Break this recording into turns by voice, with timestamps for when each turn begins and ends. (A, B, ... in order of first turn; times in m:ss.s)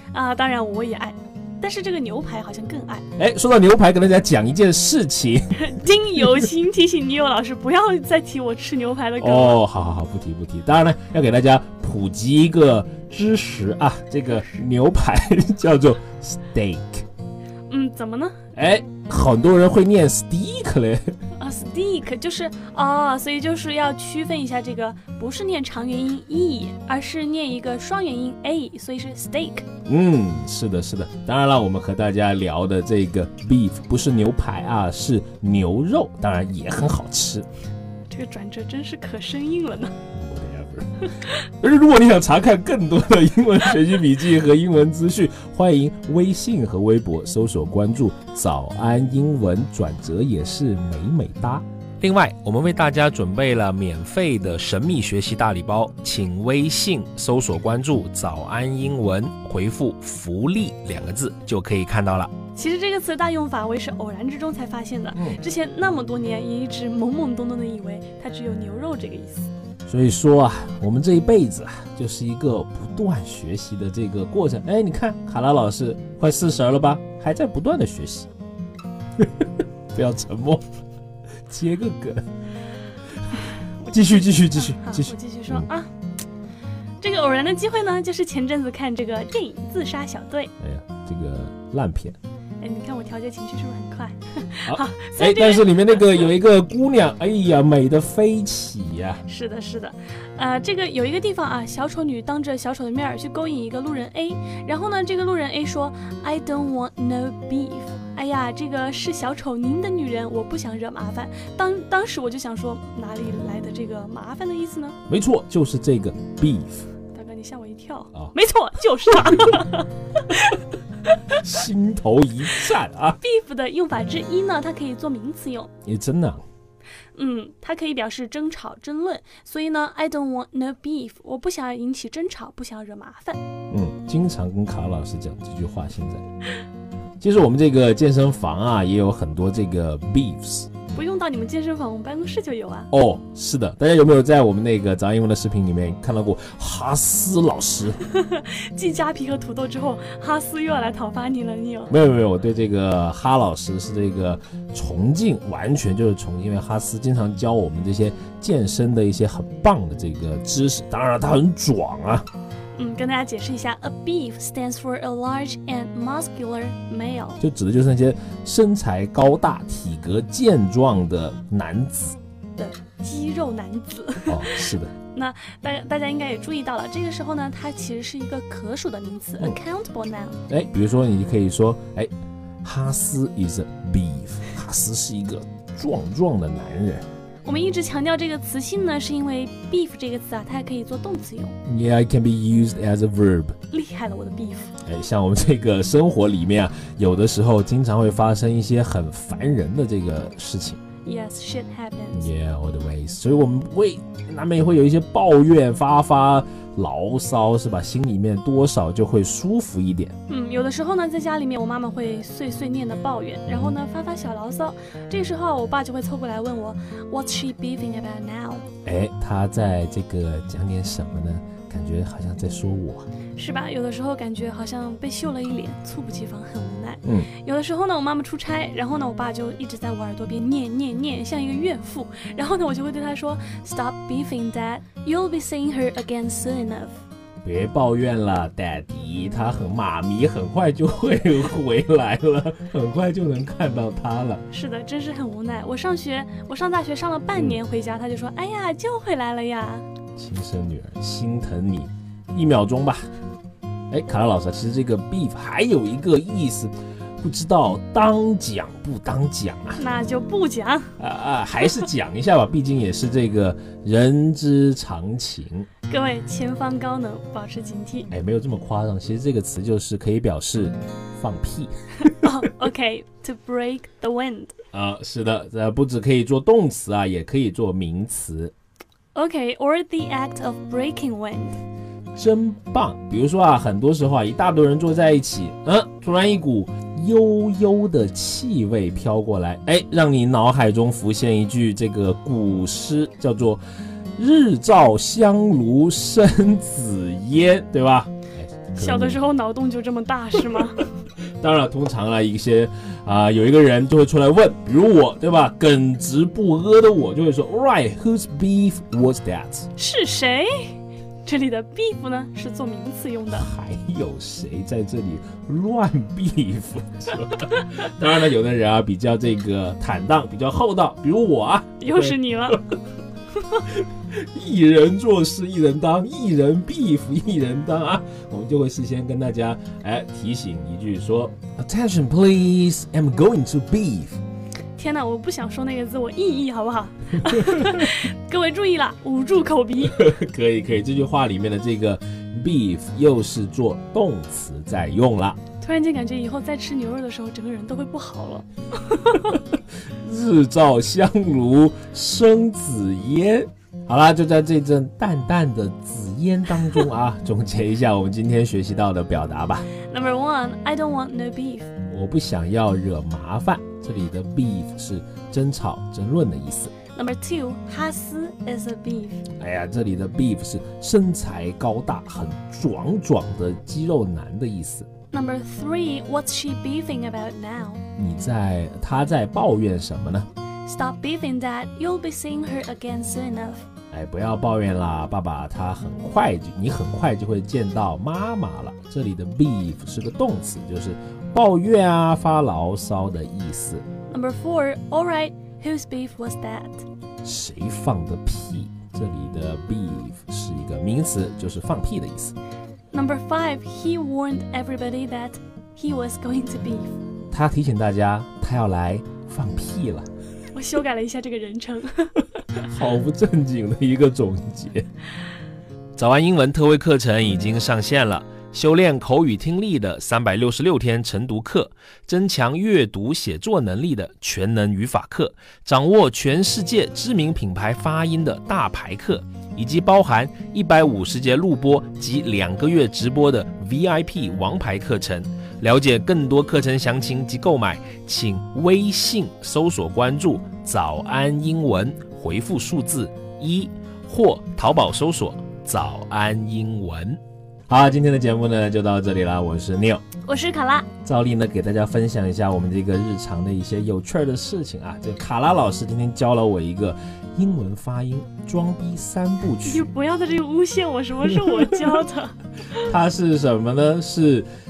0:00.1-0:03.1 A
0:03.2-0:05.5 B
0:05.6-0:09.6 A
0:09.2-0:17.0 B
0:17.7-0:18.4 A
0:18.5-0:21.1 B
0:21.4-0:29.6 A
0:29.8-0:37.4 B
0:38.1-0:39.9 A
0:40.1-1:02.3 B
1:02.5-1:09.5 A
1:05.1-1:05.4 B
1:09.9-1:18.3 B
1:19.2-1:20.6 B
1:21.5-1:22.2 B
1:23.3-1:25.9 A
1:23.9-1:25.7 B
1:27.0-1:30.5 A
1:30.6-1:32.2 B
1:32.6-1:36.3 A
1:34.7-1:39.2 B
1:39.3-1:55.0 A
1:55.1-1:56.9 B
1:57.1-2:01.2 A
2:01.3-2:03.2 B
2:03.2-2:05.7 A
2:05.8-2:06.4 B
2:07.2-2:13.4 A
2:13.7-2:16.2 B
2:17.2-2:21.0 B
2:20.9-2:22.9 A
2:22.9-2:28.0 B
2:28.0-2:31.9 A
2:31.9-2:42.2 B
2:42.8-2:47.4 A
2:47.4-2:52.2 B
2:52.6-3:00.4 A
2:54.2-2:55.0 B
3:00.5-3:02.1 B
3:02.6-3:07.0 B
3:07.4-3:11.6 A
3:11.6-3:13.6 B
3:13.7-3:14.8 A
3:14.8-3:20.8 B
3:21.0-3:22.3 A
3:22.1-3:30.1 B
3:30.3-3:38.7 A
3:33.5-3:33.8 B
3:38.8-3:43.0 B
3:43.4-3:56.9 A
3:47.0-3:47.3 B
3:57.4-4:04.4 B
4:04.5-4:09.8 A
4:07.3-4:07.6 B
4:10.2-4:13.1 B
4:13.9-4:19.8 B
4:19.8-4:20.9 A
4:21.0-4:25.7 B
4:25.9-4:28.1 A
4:28.1-4:32.2 B
4:32.0-4:34.6 A
4:34.7-4:38.5 B
4:39.1-4:41.6 A
4:42.2-4:53.6 B
4:54.2-4:59.2 B
4:58.7-5:00.9 A
5:01.4-5:09.7 B
5:09.8-5:13.5 A
5:13.3-5:22.6 B
5:21.8-5:22.6 A
5:23.6-5:34.2 B
5:34.8-5:40.1 A
5:39.8-5:45.4 B
5:45.6-5:49.4 A
5:50.0-5:59.7 B
5:59.8-6:01.7 A
6:01.8-6:06.7 B
6:06.9-6:09.3 A
6:09.3-6:14.9 B
6:15.1-6:17.8 A
6:18.0-6:20.3 B
6:20.6-6:23.7 A
6:23.9-6:33.8 B
6:34.1-6:36.8 A
6:37.2-6:42.3 B
6:42.9-6:46.9 A
6:47.3-6:50.1 B
6:50.5-6:52.6 A
6:52.6-6:54.8 B
6:56.0-7:30.1 B
7:30.2-7:30.9 A
7:31.0-7:39.9 B
7:39.6-7:42.9 A
7:41.4-7:42.0 B
7:42.8-7:44.4 B